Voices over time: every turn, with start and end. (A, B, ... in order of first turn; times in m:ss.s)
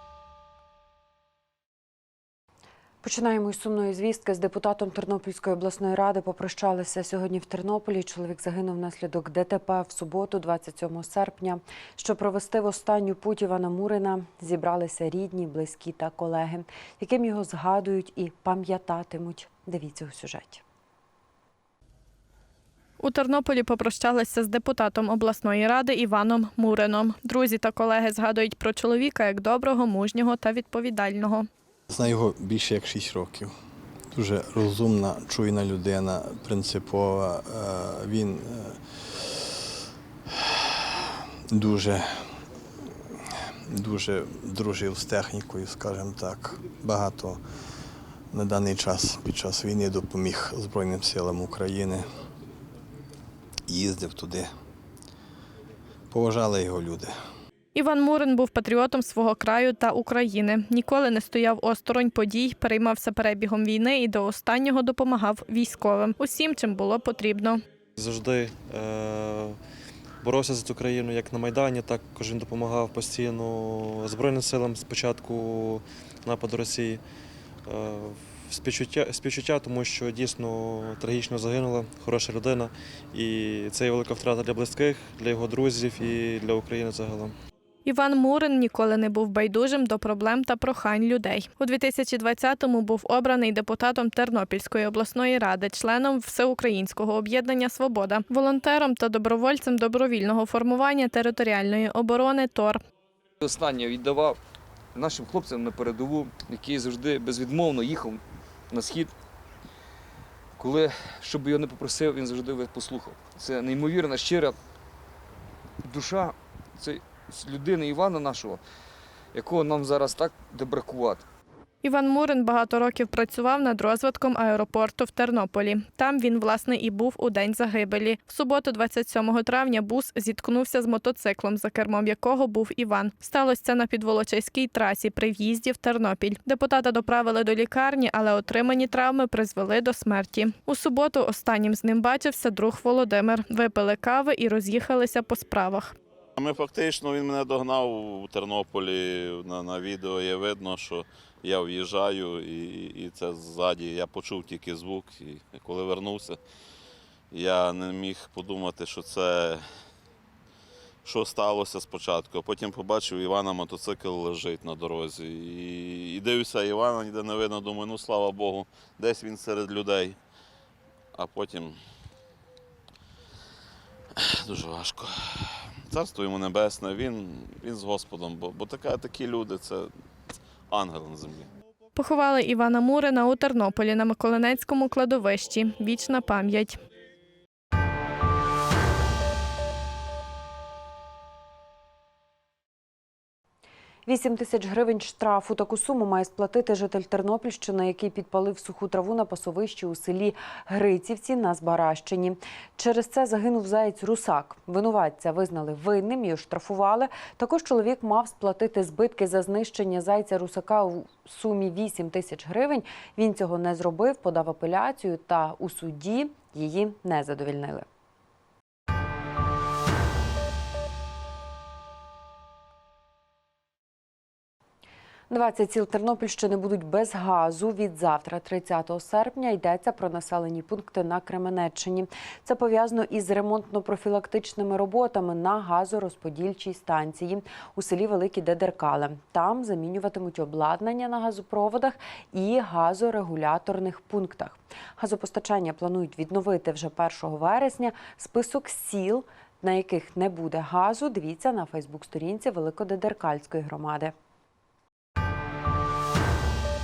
0:03.0-0:20.6 A
0:23.0-0:31.5 B
0:31.9-0:33.5 C
0:34.1-0:38.8 C
0:41.5-0:42.2 C
0:43.7-0:47.4 C
0:48.3-0:52.1 C
0:53.7-0:54.5 C
0:56.1-0:57.1 C
0:57.8-1:07.6 B
1:08.0-1:09.6 D
1:10.2-1:17.0 D
1:17.7-1:27.4 D
1:27.9-1:42.8 B
1:43.4-1:44.4 E
1:44.9-1:49.1 E
1:50.6-1:54.6 E
1:55.8-1:58.6 E
1:59.3-2:01.2 E
2:01.8-2:26.0 B
2:26.4-2:36.4 F
2:37.3-2:39.6 F
2:41.0-2:50.2 F
2:51.2-2:51.8 F
2:54.5-2:55.1 F
2:55.9-2:59.9 F
3:00.7-3:01.5 F
3:02.0-3:06.8 B
3:14.1-3:37.9 A
3:45.3-4:14.1 A